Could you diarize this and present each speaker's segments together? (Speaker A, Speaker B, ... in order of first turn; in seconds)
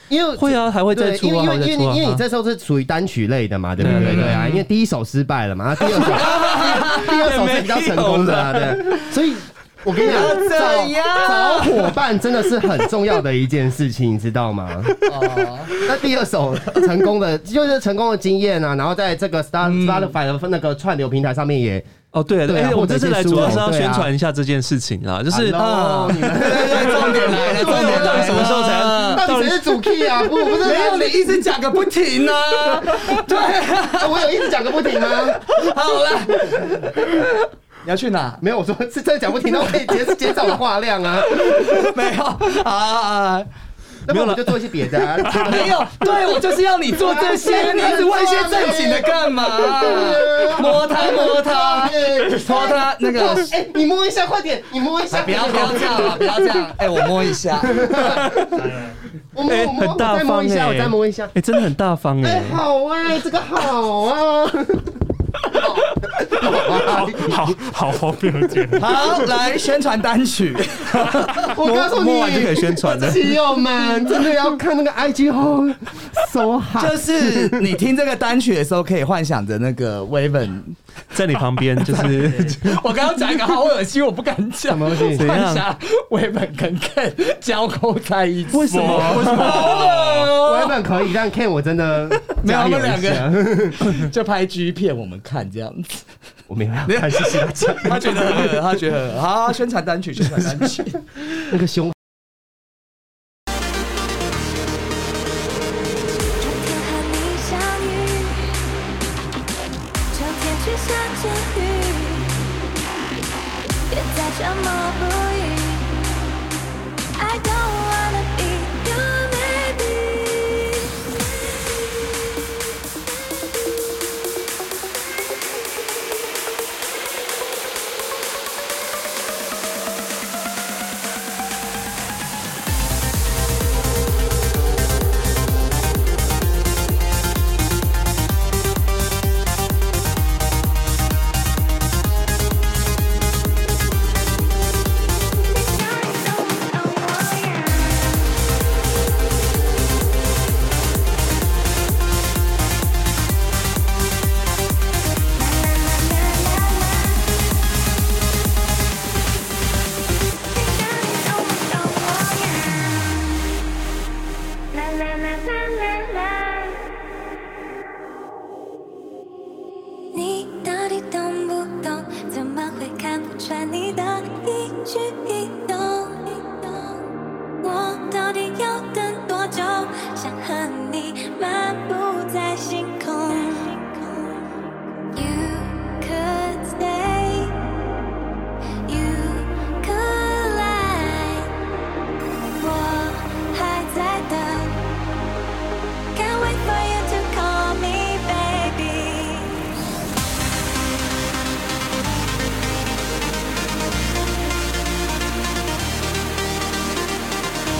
Speaker A: 0.1-14.9, 15.8-21.9, 22.4-24.1, 25.3-31.4, 32.7-33.2, 33.9-35.5, 38.4-41.9, 44.0-46.1, 46.9-56.5, 57.6-58.7, 59.3-61.3, 62.2-67.5, 71.4-77.8, 84.7-85.3, 90.3-94.0, 96.5-98.6, 101.4-102.0
Speaker B: 0.4-2.2, 3.8-4.4, 22.1-25.6, 26.8-29.8, 44.1-44.7, 45.2-45.6, 59.4-62.6, 71.3-73.3, 81.1-82.8, 85.1-85.7, 88.5-89.8
Speaker C: 3.8-4.6, 5.8-9.1, 10.0-11.9, 15.1-15.7, 19.6-20.1, 25.5-29.3, 30.4-38.4, 40.0-40.3, 41.3-43.5, 45.3-53.5, 55.1-58.1, 68.8-71.5, 76.8-80.8, 81.7-90.8, 92.2-96.0, 96.8-101.0
Speaker D: 58.5-59.0, 66.7-69.2, 88.7-90.1
Speaker E: 106.4-108.6, 110.1-112.3, 113.9-115.9, 117.2-120.8, 145.7-148.2, 155.3-157.3, 160.5-163.2, 164.7-166.8, 170.1-177.0, 177.6-184.4, 185.1-187.6, 188.8-191.5, 192.5-194.8, 196.1-199.6